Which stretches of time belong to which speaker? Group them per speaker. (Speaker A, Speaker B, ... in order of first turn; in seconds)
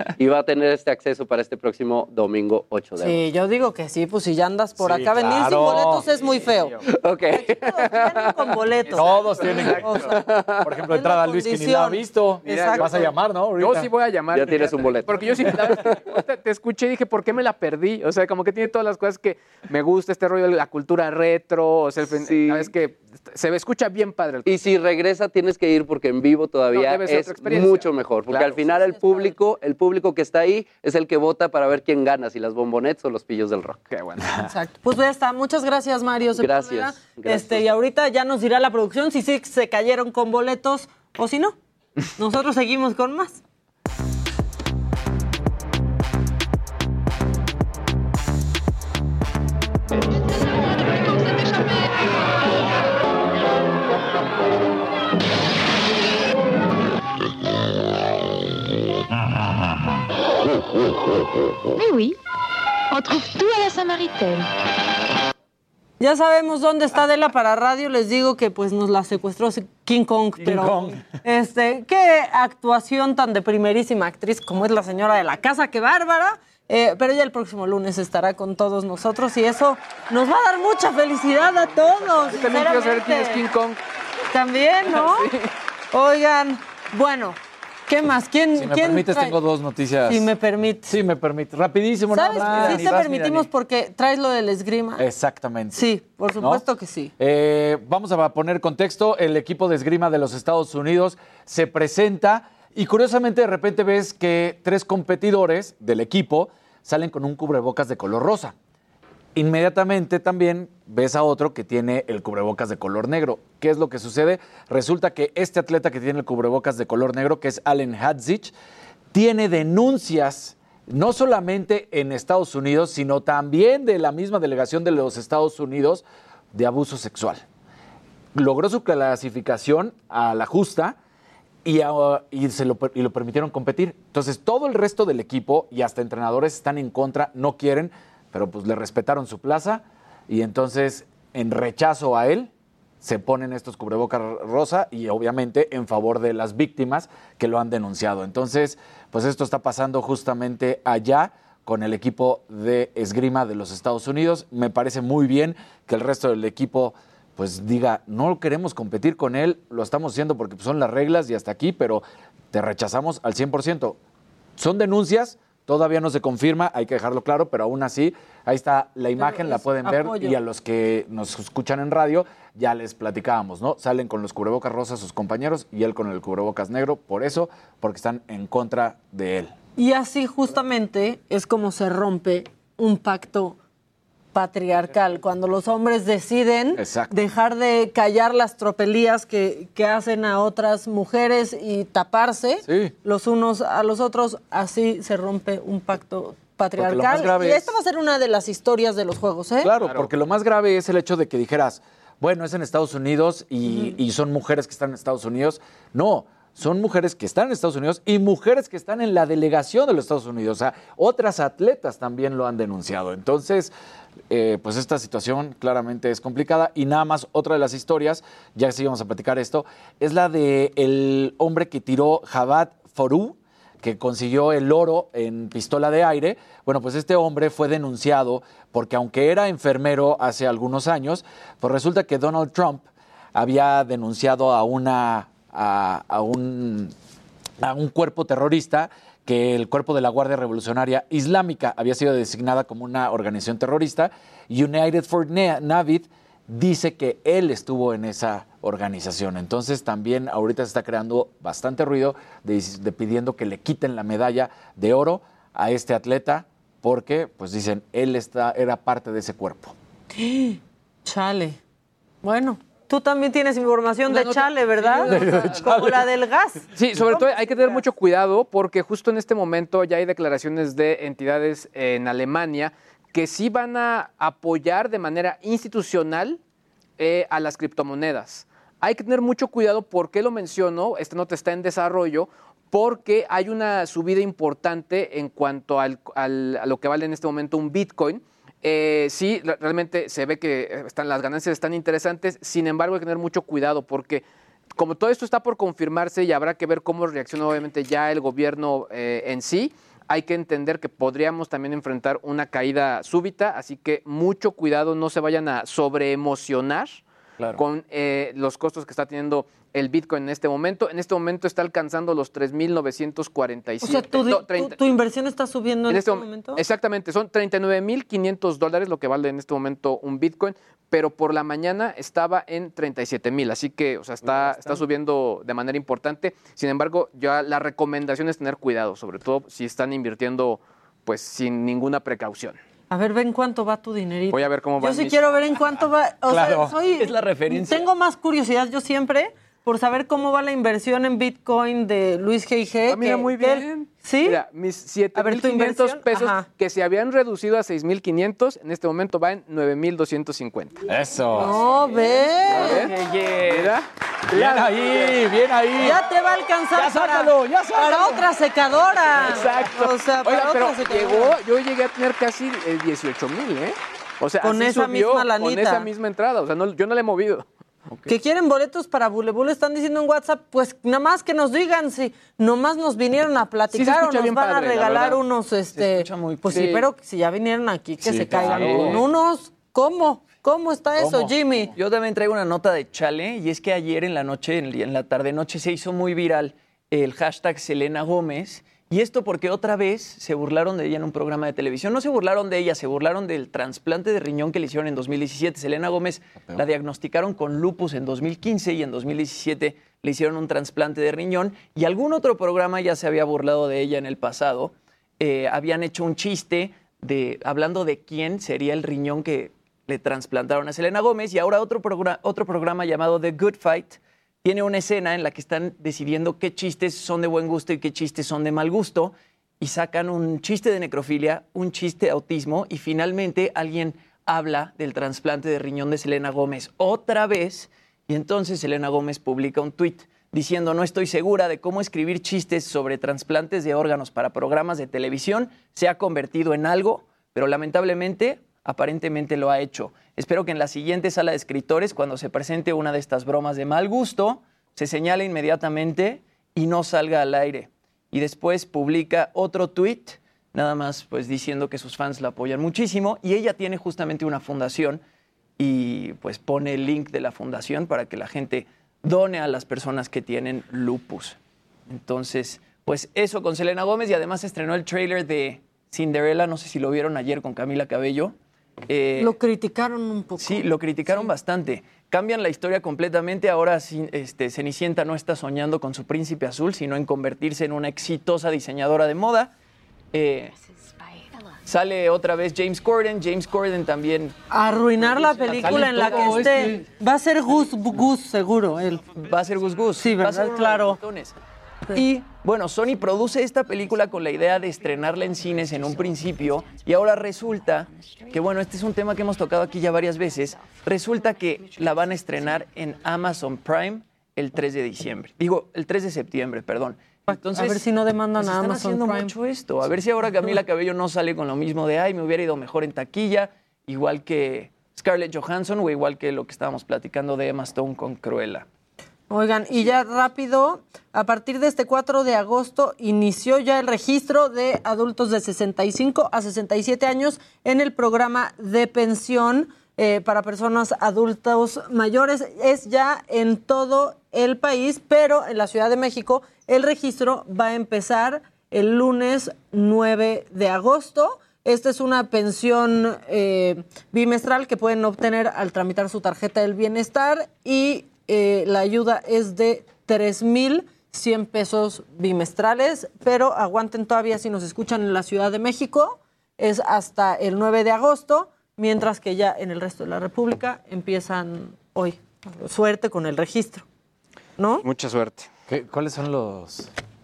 Speaker A: 0.2-3.2, 6.9-8.3, 9.5-10.7, 14.3-16.2, 22.1-22.7, 24.4-33.9, 36.3-37.7
Speaker B: 3.0-6.8, 7.3-10.3, 10.9-13.1, 34.4-41.5, 42.2-43.4, 66.0-83.4, 84.3-85.3, 85.9-87.4, 87.9-89.4, 90.0-90.9, 92.1-95.0, 95.7-97.1, 169.2-170.4, 179.8-183.6, 184.3-199.7, 260.1-261.6, 262.2-267.8, 313.8-316.6, 332.9-344.4, 345.1-346.4, 351.3-353.0, 355.8-361.4, 364.4-365.9, 368.1-381.7, 469.2-471.3, 484.5-489.2, 489.9-491.0, 507.3-509.3, 519.3-563.8, 564.6-564.8
Speaker C: 4.7-6.1, 8.9-13.9, 70.4-71.0, 88.5-90.3, 90.9-92.9, 95.0-96.6, 97.2-108.5, 109.3-118.5, 119.1-127.4, 128.3-130.9, 131.6-142.5, 143.0-164.0, 164.6-179.5, 186.7-187.2, 192.6-192.9, 196.8-197.7, 199.6-213.7, 214.3-236.9, 237.6-259.7, 265.0-266.0, 336.3-336.8, 350.9-351.6, 354.3-356.0, 356.7-358.2, 378.0-379.0, 381.0-381.6, 485.5-486.8, 565.7-566.9
Speaker D: 12.4-13.0, 13.6-24.6, 26.7-29.1, 33.9-34.3, 82.3-83.8, 84.9-85.5, 199.8-200.1, 264.1-265.6, 266.7-276.4, 277.0-294.2, 294.8-307.0, 307.6-314.8, 315.9-332.6, 334.3-335.3, 342.9-350.8, 352.4-355.2, 359.2-367.4, 373.7-375.2, 376.5-376.8, 378.6-378.8, 564.8-565.5
Speaker E: 61.7-62.1, 62.9-64.5
Speaker F: 92.3-93.5, 324.2-324.8, 336.8-337.9, 352.7-353.6, 375.7-376.8, 381.8-455.0, 455.6-461.4, 461.9-468.4, 468.9-469.3, 470.4-479.5, 480.1-480.6, 481.6-484.3, 485.0-486.4, 489.2-491.4, 491.9-518.6